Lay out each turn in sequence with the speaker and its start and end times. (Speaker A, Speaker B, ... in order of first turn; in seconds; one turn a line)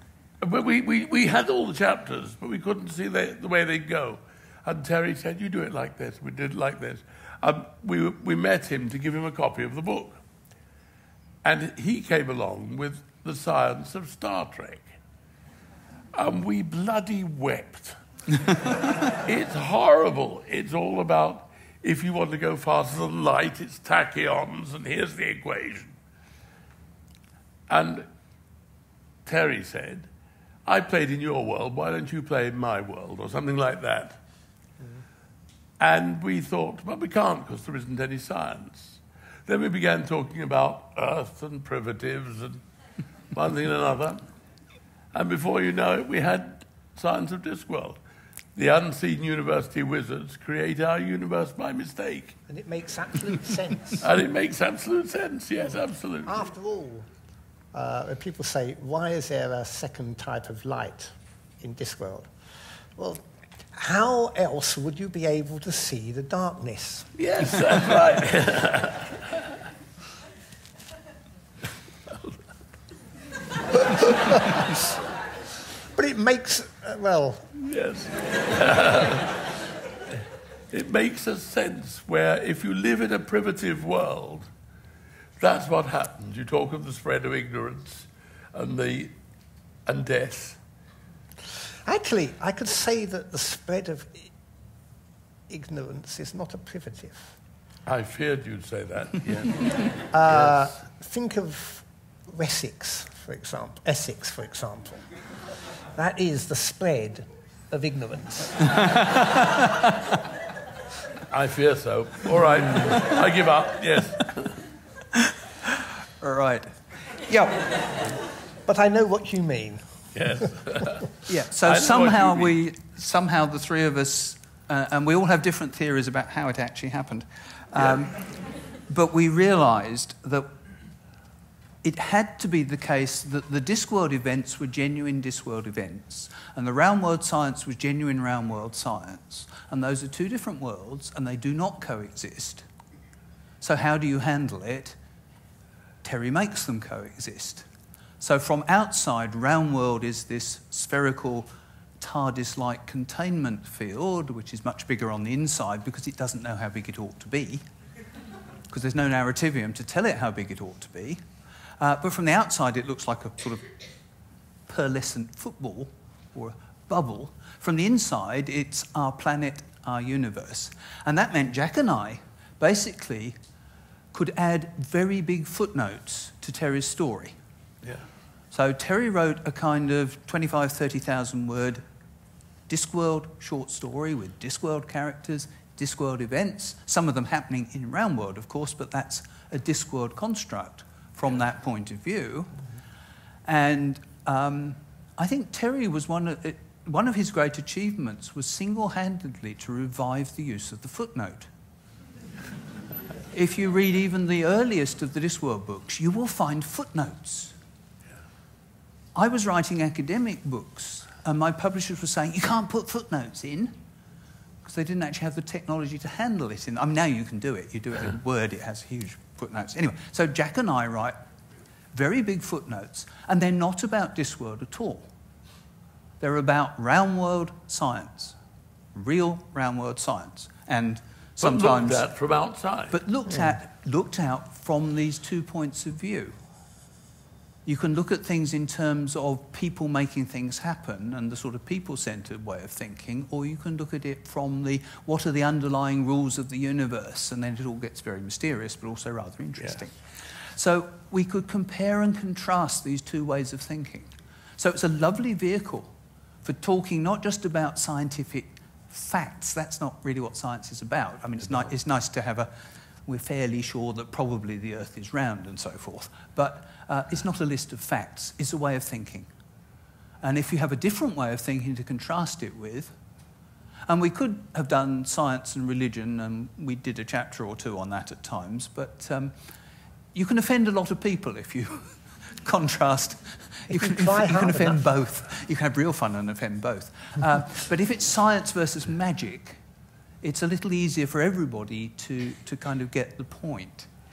Speaker A: 0.4-10.2
Speaker A: 11.4-14.9
Speaker A: 16.1-18.0
Speaker A: 18.5-26.0
Speaker A: 27.7-28.1
Speaker A: 29.2-30.1
Speaker A: 30.6-34.2
Speaker A: 35.8-42.6
Speaker A: 43.3-44.2
Speaker A: 45.1-48.0
Speaker A: 48.5-52.4
Speaker B: 52.5-54.0
Speaker A: 54.0-56.5
Speaker B: 56.2-57.1
Speaker B: 57.7-62.3
Speaker B: 63.0-67.1
Speaker A: 67.2-69.3
Speaker A: 72.1-72.4
Speaker B: 75.9-77.5
Speaker A: 77.6-79.6
Speaker A: 80.7-84.5
Speaker A: 85.4-89.1
Speaker A: 89.8-90.6
Speaker B: 91.8-94.3
Speaker B: 95.5-97.3
Speaker A: 97.9-100.6
Speaker B: 100.1-105.1
Speaker B: 106.0-108.7
Speaker C: 108.8-109.9
Speaker A: 111.3-114.6
Speaker C: 116.2-116.7
Speaker C: 117.3-117.8
Speaker B: 118.7-120.0
Speaker A: 120.1-121.1
Speaker C: 121.3-128.2
Speaker A: 121.6-122.5
Speaker C: 128.9-130.5
Speaker C: 131.8-142.7
Speaker C: 143.6-145.0
Speaker C: 146.0-147.7
Speaker C: 148.2-157.6
Speaker C: 158.7-161.2
Speaker C: 161.8-163.7
Speaker C: 164.7-173.4
Speaker C: 174.1-177.3
Speaker C: 178.5-181.8
Speaker C: 182.7-192.6
Speaker C: 193.4-201.5
Speaker C: 203.3-207.6
Speaker C: 209.1-213.8
Speaker C: 214.6-221.2
Speaker C: 221.9-225.1
Speaker C: 226.2-228.4
Speaker C: 228.9-232.1
Speaker A: 231.4-233.0
Speaker C: 232.9-236.4
Speaker C: 237.7-262.5
Speaker C: 263.1-269.3
Speaker C: 270.2-272.9
Speaker C: 273.9-279.4
Speaker C: 280.1-289.6
Speaker B: 283.7-284.8
Speaker C: 290.2-293.9